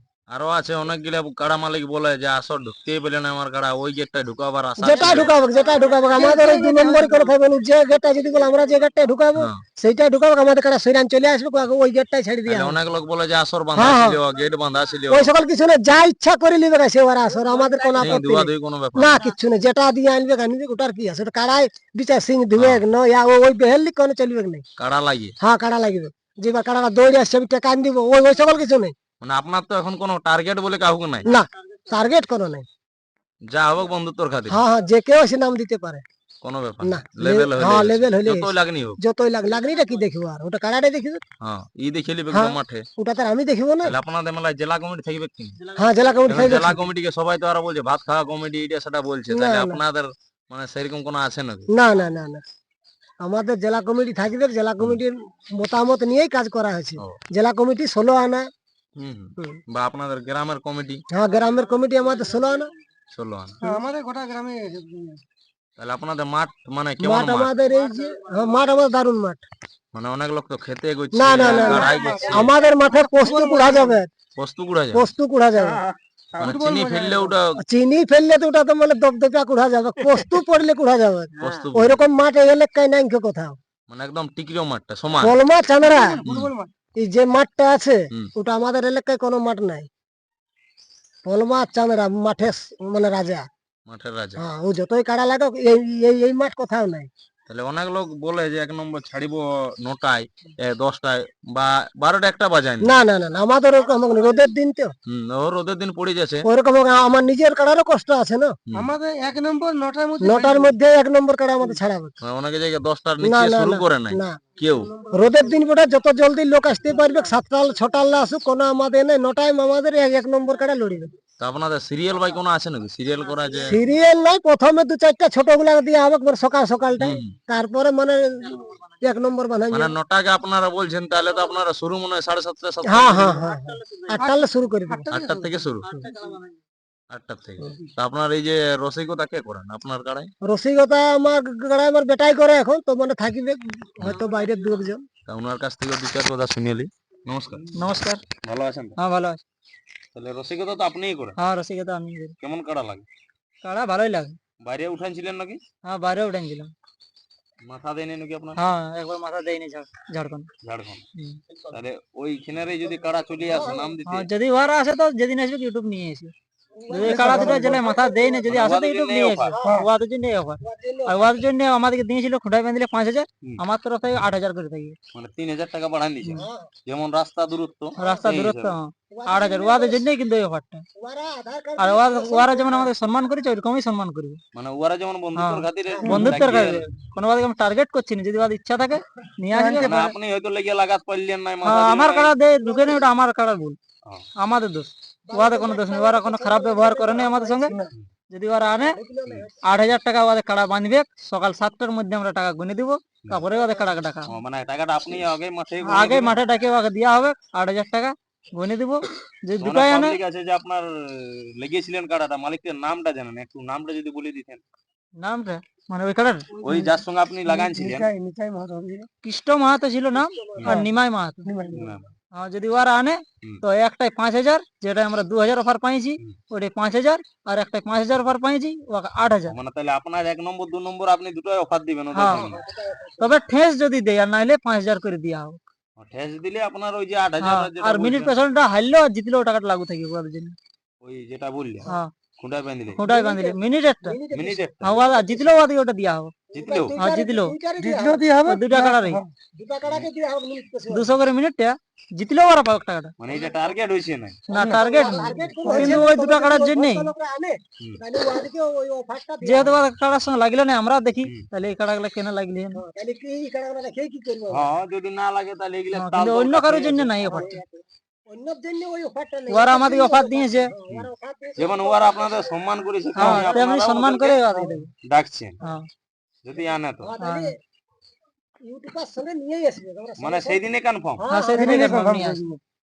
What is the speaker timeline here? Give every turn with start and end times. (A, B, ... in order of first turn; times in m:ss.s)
0:00.3-0:05.4 A
0:04.8-0:12.8 B
0:06.1-0:07.3 C
0:09.4-0:09.6 A
0:12.5-0:15.3 A
0:13.8-0:14.2 B
0:15.1-0:24.6 B
0:17.7-0:18.1 C
0:18.0-0:19.2 A
0:22.6-0:22.8 A
0:24.8-0:25.4 A
0:25.4-0:28.9 B
0:29.2-0:31.3 A
0:31.2-0:32.7 B
0:33.5-0:34.6 A
0:34.5-0:36.0 B
0:36.4-0:39.0 A
0:36.8-0:41.2 B
0:41.4-0:42.9 A
0:42.3-0:43.9 B
0:43.8-0:45.6 A
0:45.8-0:46.8 B
0:46.3-0:51.7 A
0:49.3-0:49.8 B
0:51.7-0:52.4 B
0:53.2-0:58.5 B
0:59.0-1:01.0 A
1:01.1-1:02.7 B
1:03.1-1:03.6 A
1:03.6-1:05.2 C
1:05.8-1:07.5 A
1:07.0-1:09.4 B
1:09.9-1:12.6 A
1:11.1-1:14.1 B
1:11.4-1:14.0 C
1:14.4-1:15.1 A
1:14.9-1:15.8 B
1:16.4-1:17.6 A
1:16.4-1:17.3 C
1:17.6-1:23.6 B
1:21.4-1:22.0 A
1:23.9-1:25.4 A
1:25.2-1:26.2 B
1:25.8-1:26.7 C
1:26.2-1:26.5 A
1:27.0-1:29.9 B
1:31.2-1:33.5 B
1:33.9-1:34.4 A
1:34.4-1:37.1 B
1:37.5-1:43.0 A
1:42.8-1:44.9 B
1:45.1-1:46.5 A
1:46.4-1:48.6 B
1:48.7-1:50.7 C
1:50.2-1:52.2 B
1:52.2-1:54.9 A
1:53.2-1:54.4 B
1:54.8-1:55.4 C
1:55.1-2:01.1 B
2:01.4-2:03.8 A
2:03.7-2:09.9 B
2:07.0-2:07.4 A
2:09.7-2:13.4 A
2:12.9-2:15.1 B
2:13.4-2:14.2 D
2:14.1-2:15.6 C
2:15.1-2:15.9 A
2:15.9-2:16.5 D
2:17.1-2:20.3 A
2:20.4-2:25.0 B
2:25.3-2:27.7 A
2:27.7-2:28.2 D
2:28.4-2:29.0 A
2:29.0-2:29.4 D
2:30.2-2:31.4 A
2:31.4-2:32.4 D
2:32.4-2:33.1 A
2:33.6-2:34.4 D
2:34.6-2:35.6 A
2:35.8-2:36.7 D
2:37.6-2:38.6 A
2:38.6-2:40.5 D
2:40.6-2:41.1 A
2:41.7-2:44.3 A
2:43.5-2:43.9 B
2:44.1-2:46.3 D
2:46.8-2:48.4 B
2:46.9-2:55.0 D
2:47.0-2:47.8 C
2:48.4-2:49.5 A
2:50.6-2:51.3 B
2:55.1-2:58.8 A
2:56.4-2:56.7 B
2:58.0-2:58.3 B
2:58.0-3:00.8 D
2:59.1-3:00.0 B
3:01.0-3:02.9 B
3:01.8-3:04.4 D
3:04.5-3:06.9 A
3:05.4-3:10.0 D
3:05.9-3:06.2 B
3:09.5-3:10.1 C
3:09.8-3:12.3 A
3:11.6-3:13.8 D
3:12.6-3:13.0 B
3:14.4-3:17.8 D
3:15.3-3:17.8 B
3:18.3-3:19.0 D
3:18.6-3:19.6 B
3:19.6-3:24.3 D
3:24.3-3:26.4 A
3:25.8-3:30.2 D
3:29.6-3:34.6 A
3:35.2-3:36.5 D
3:36.6-3:38.1 A
3:36.6-3:36.9 C
3:37.5-3:39.1 C
3:39.2-3:41.5 D
3:40.2-3:40.8 B
3:41.4-3:42.0 C
3:41.7-3:42.0 A
3:42.3-3:49.6 D
3:49.5-3:52.6 A
3:52.1-3:52.6 D
3:52.2-3:53.3 B
3:53.2-3:55.6 D
3:56.0-3:58.4 A
3:57.4-4:00.6 D
4:01.0-4:03.0 A
4:03.0-4:04.2 D
4:03.0-4:05.6 B
4:04.3-4:05.0 A
4:04.8-4:06.4 D
4:06.5-4:08.2 B
4:06.5-4:07.0 A
4:07.0-4:07.6 D
4:07.8-4:09.3 C
4:08.4-4:09.2 D
4:09.6-4:11.1 B
4:10.9-4:13.1 D
4:13.2-4:14.5 A
4:13.3-4:13.7 B
4:14.5-4:17.1 D
4:14.5-4:14.8 C
4:14.6-4:19.8 B
4:15.6-4:16.1 C
4:19.4-4:22.8 D
4:22.7-4:24.7 B
4:24.5-4:27.3 A
4:25.9-4:27.6 D
4:27.2-4:32.6 B
4:29.5-4:30.7 D
4:30.9-4:34.4 A
4:33.2-4:33.6 B
4:33.2-4:34.9 D
4:35.0-4:35.6 A
4:35.6-4:35.9 D
4:36.4-4:37.1 A
4:37.0-4:37.5 B
4:37.2-4:37.5 D
4:38.6-4:40.7 B
4:40.2-4:41.2 A
4:41.2-4:42.0 B
4:41.3-4:42.5 D
4:41.6-4:42.6 C